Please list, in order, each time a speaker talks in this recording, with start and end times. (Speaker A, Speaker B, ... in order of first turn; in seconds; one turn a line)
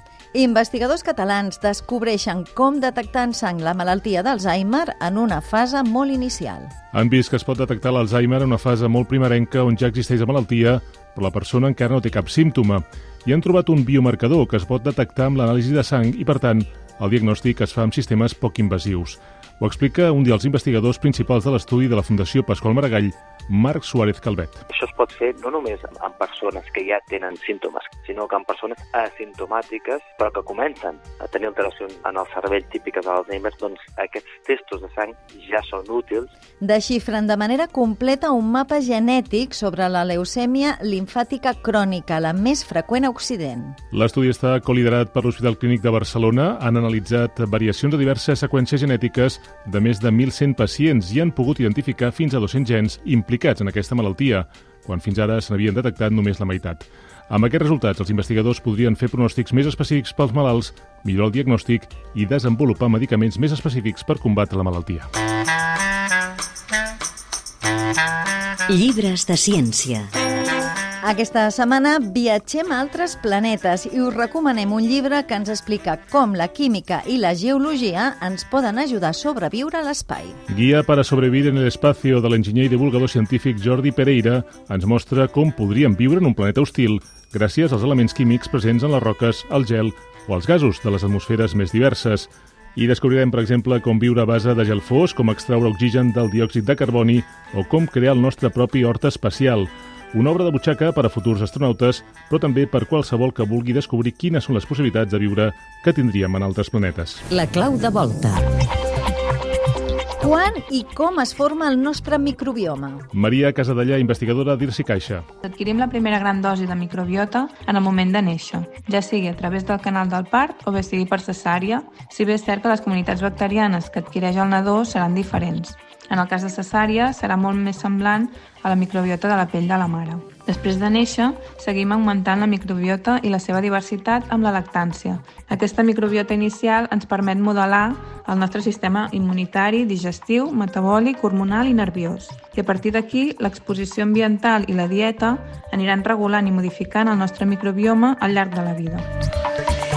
Speaker A: 0.3-6.7
Speaker B: 6.9-24.6
Speaker C: 24.7-36.3
Speaker A: 36.6-43.8
Speaker B: 43.9-65.1
Speaker D: 68.7-70.1
Speaker A: 71.0-80.4
Speaker B: 80.5-107.2
Speaker D: 107.3-108.5
Speaker A: 110.2-113.0
Speaker B: 113.1-115.2
Speaker E: 115.4-149.1